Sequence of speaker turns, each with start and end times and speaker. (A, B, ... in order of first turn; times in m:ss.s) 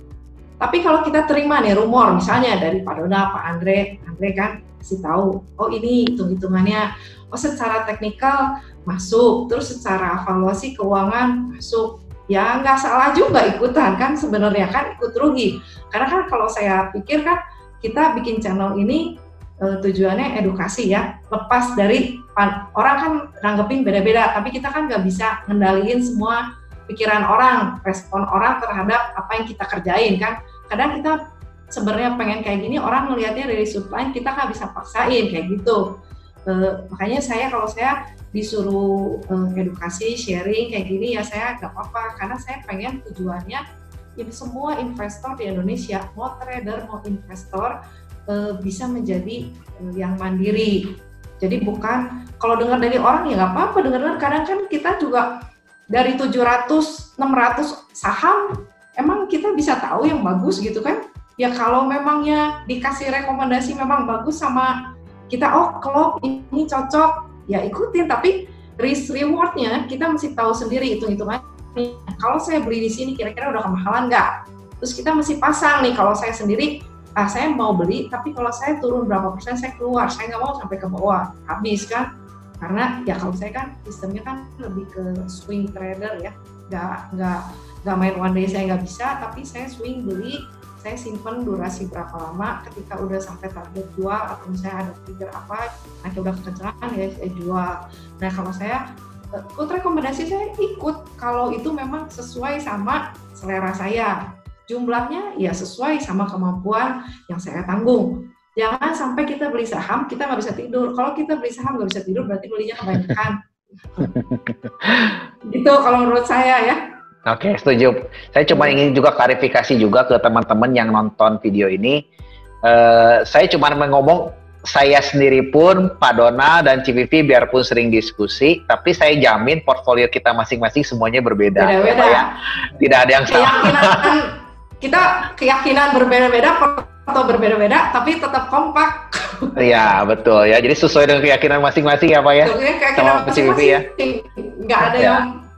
0:00.6-0:19.1 A
0:19.6-0:31.2 A
0:31.7-0:35.8 A
0:36.5-0:43.6 A
0:44.2-0:47.7 A
0:48.3-0:50.8 A
0:51.4-0:55.3 A
0:55.9-1:04.7 A
1:05.3-1:22.1 A
1:22.6-1:38.8 A
1:39.4-1:44.1 A
1:44.7-1:53.4 A
1:54.0-1:55.2 B
1:55.5-1:56.8 A
1:57.3-2:02.0 B
1:58.5-1:58.8 A
2:02.6-2:14.1 B
2:11.6-2:12.3 A
2:13.3-2:19.6 A
2:19.6-2:23.8 B
2:22.4-2:25.3 A
2:24.8-2:25.2 B